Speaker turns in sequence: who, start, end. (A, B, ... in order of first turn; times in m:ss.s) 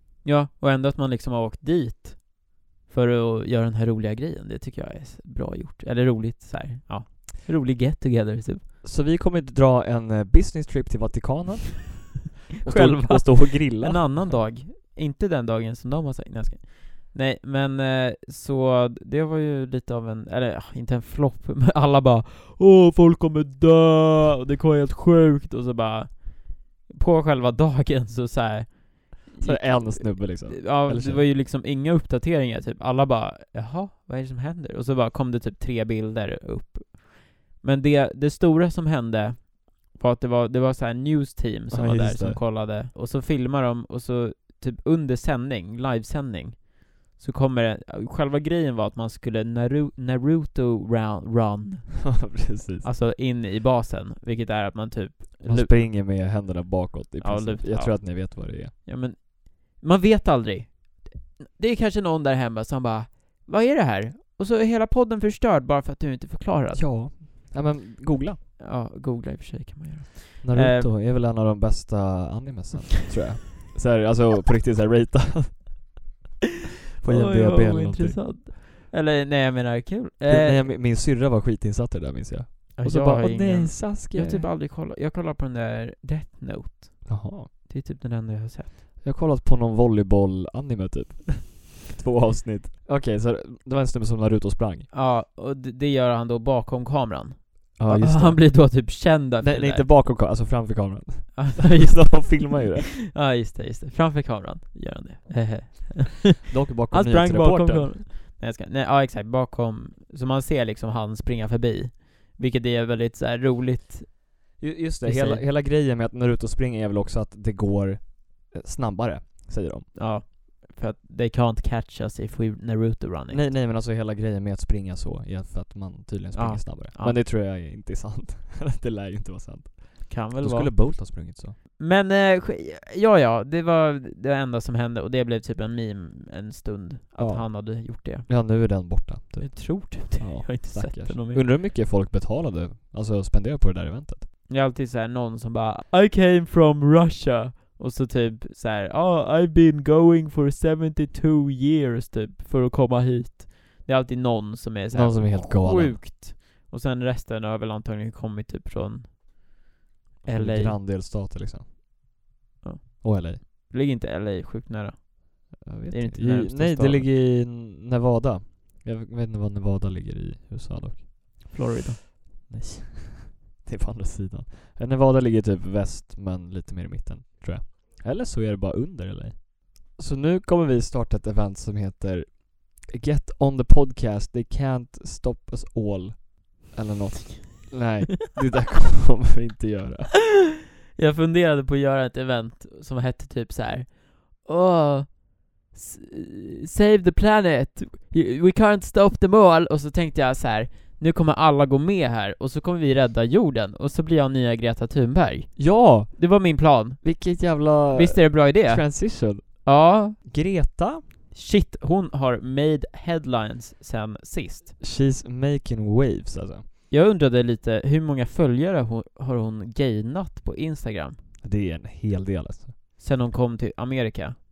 0:00.2-0:08.6 A
0:08.8-0:14.4 B
0:12.6-0:55.9 A
0:29.4-0:31.2 B
0:41.7-0:42.4 B
0:52.0-0:52.9 B
0:55.4-0:58.7 B
0:57.2-1:06.8 A
1:06.7-1:08.4 B
1:08.6-1:10.9 A
1:10.4-1:16.0 B
1:17.0-1:18.4 B
1:17.1-1:20.6 A
1:20.3-1:24.5 B
1:22.8-1:28.7 A
1:27.0-1:27.5 B
1:29.0-1:34.9 B
1:34.9-1:39.9 A
1:37.8-1:42.9 B
1:41.4-1:55.4 A
1:46.5-1:47.9 B
1:54.6-1:59.9 B
1:59.9-2:03.4 A
2:03.3-2:11.6 B
2:06.3-2:07.2 A
2:10.1-2:11.2 A
2:11.8-2:18.3 A
2:17.2-2:24.3 B
2:19.4-2:21.4 A
2:24.5-2:39.2 A
2:34.9-2:36.0 B
2:40.2-2:40.8 A
2:40.2-2:41.6 B
2:42.6-2:47.1 A
2:43.0-2:43.4 B
2:45.6-2:51.6 B
2:51.5-2:52.0 A
2:52.5-3:10.2 B
3:11.0-3:30.2 A
3:25.6-3:26.3 B
3:27.0-3:31.0 B
3:31.3-3:34.7 A
3:34.8-3:36.6 B
3:36.9-3:41.2 A
3:41.4-3:42.7 B
3:43.0-3:44.4 A